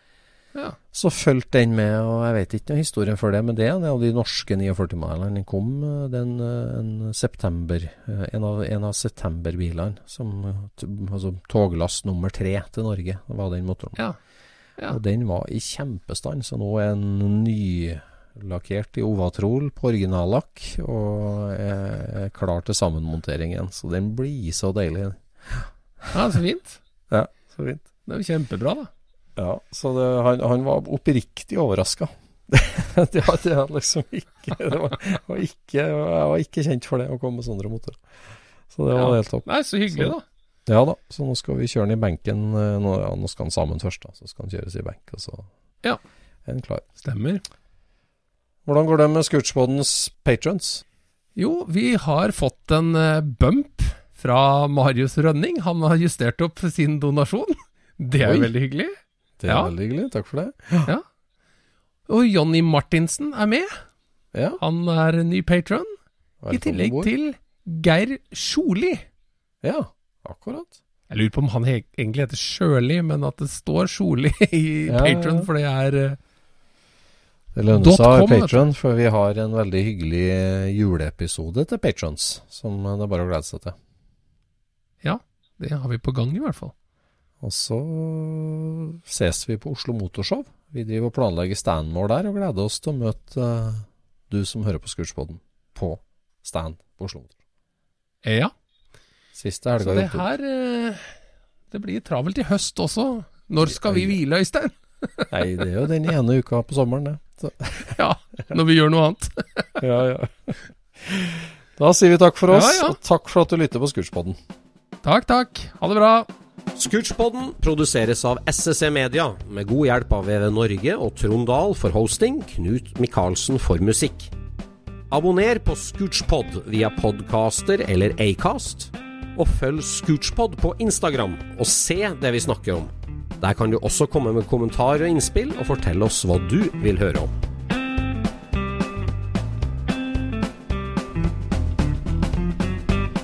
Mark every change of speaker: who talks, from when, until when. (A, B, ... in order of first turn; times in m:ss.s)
0:00.9-0:14.0 A
0:14.9-0:25.7 A
0:26.1-0:26.8 B
0:27.1-0:27.9 A
0:28.1-0:28.9 B
0:29.4-0:38.0 A
0:38.7-0:40.2 A
0:38.9-0:40.2 B
0:40.7-0:45.5 A
0:46.5-0:46.9 A
0:47.0-0:47.4 B
0:48.6-0:50.8 A
0:51.4-0:59.0 B
0:58.2-0:58.5 A
0:59.4-1:00.9 A
1:02.1-1:03.8 B
1:04.3-1:04.6 A
1:04.6-1:06.0 B
1:06.4-1:07.1 A
1:06.5-1:09.0 B
1:09.6-1:10.8 A
1:11.1-1:16.2 B
1:14.9-1:15.5 A
1:17.6-1:23.8 A
1:17.8-1:18.6 B
1:25.0-1:26.7 B
1:27.4-1:37.4 A
1:38.2-1:38.5 B
1:39.4-1:40.3 A
1:39.8-1:41.1 B
1:41.7-1:45.3 B
1:43.6-1:44.2 A
1:45.3-1:48.0 A
1:48.0-1:49.7 B
1:49.8-1:54.4 A
1:52.5-1:53.0 B
1:55.0-1:56.3 B
1:56.8-2:04.3 C
2:05.1-2:17.3 C